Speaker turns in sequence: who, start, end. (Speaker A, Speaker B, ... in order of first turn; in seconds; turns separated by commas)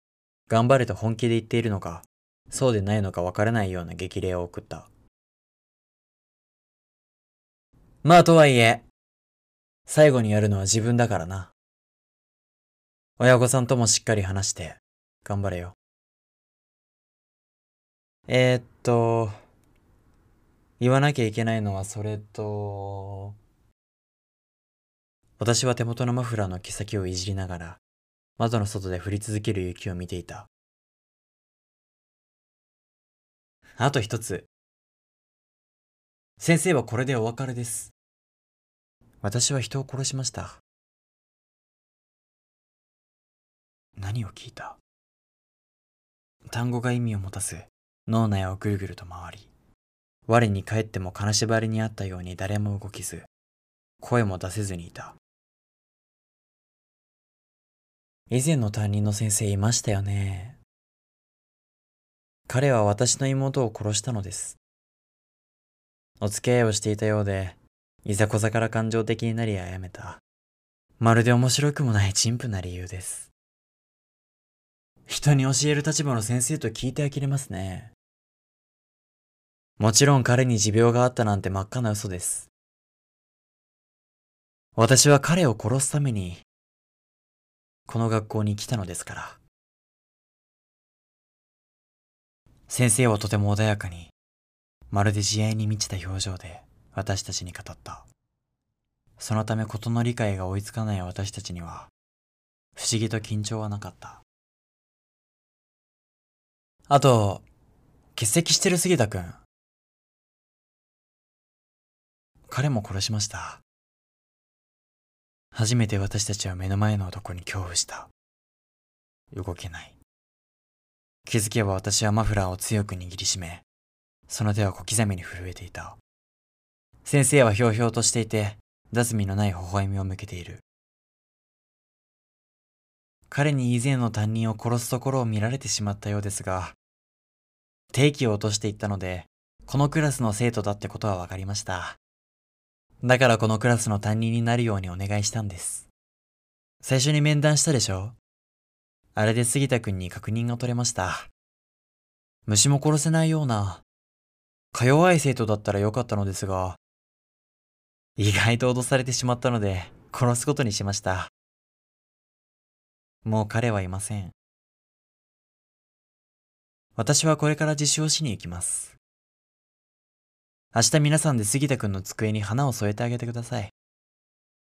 Speaker A: 0.5-4.9, Speaker A: 8.0-8.8, Speaker A: 9.9-11.5, Speaker A: 13.2-15.7, Speaker A: 18.3-19.4, Speaker A: 20.8-23.3, Speaker A: 25.4-27.8, Speaker A: 28.4-30.5, Speaker A: 33.8-34.5, Speaker A: 36.4-37.9, Speaker A: 39.2-40.6, Speaker A: 44.0-44.8, Speaker A: 46.5-49.5, Speaker A: 50.3-53.3, Speaker A: 54.0-55.1, Speaker A: 58.3-60.6, Speaker A: 62.5-64.6, Speaker A: 66.2-70.2, Speaker A: 71.0-73.3, Speaker A: 75.1-77.9, Speaker A: 79.8-82.5, Speaker A: 84.8-86.4, Speaker A: 87.9-89.4, Speaker A: 92.7-94.1, Speaker A: 94.9-98.0, Speaker A: 99.2-101.9, Speaker A: 102.8-104.2, Speaker A: 106.9-107.4, Speaker A: 108.2-109.4, Speaker A: 112.5-113.6, Speaker A: 115.5-118.1, Speaker A: 119.3-120.0, Speaker A: 121.2-123.6, Speaker A: 124.3-126.0, Speaker A: 127.0-130.6, Speaker A: 133.3-136.8, Speaker A: 137.9-142.0, Speaker A: 143.0-145.9, Speaker A: 146.8-148.2, Speaker A: 149.1-151.3, Speaker A: 152.4-153.8, Speaker A: 154.7-156.8, Speaker A: 158.2-161.3, Speaker A: 163.2-164.3, Speaker A: 166.9-168.9, Speaker A: 170.7-173.7